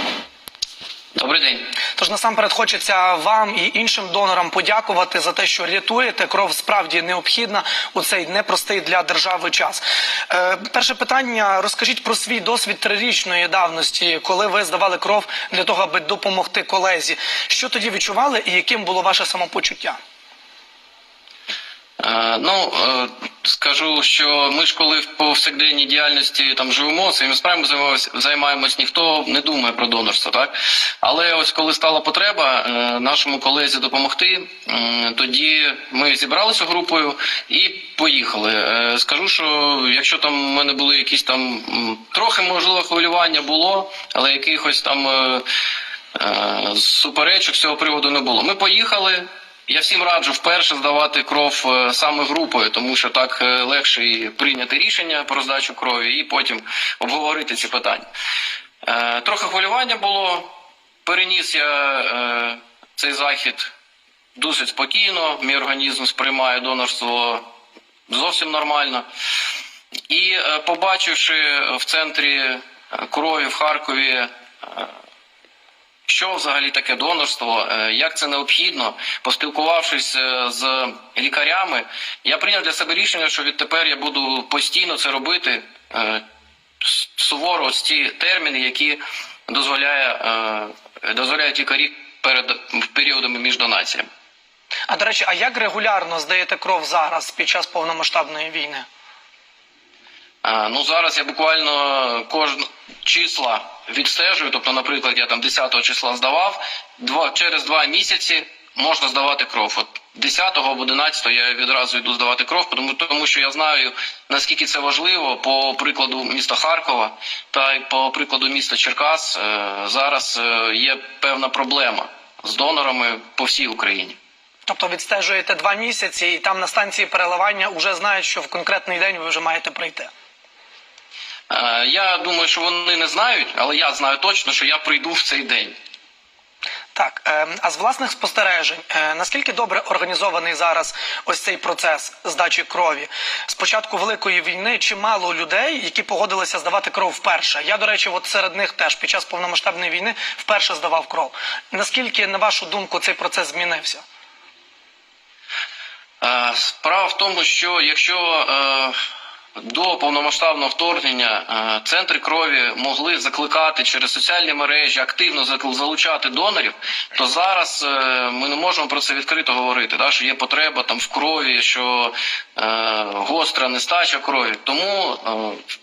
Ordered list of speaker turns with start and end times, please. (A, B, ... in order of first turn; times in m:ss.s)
0:01.1-0:01.7 A
0:02.0-0:20.0 B
0:22.0-0:45.4 A
0:46.1-0:58.0 A
0:58.8-1:00.5 A
1:01.0-1:03.7 A
1:04.4-1:07.4 A
1:08.1-1:09.0 A
1:10.1-1:14.9 A
1:16.1-1:26.2 A
1:26.8-1:34.1 A
1:34.9-1:38.9 B
1:40.4-2:04.2 A
2:04.7-2:10.1 B
2:11.5-2:15.8 A
2:16.9-2:34.0 B
2:36.2-2:38.9 A
2:39.6-2:55.6 A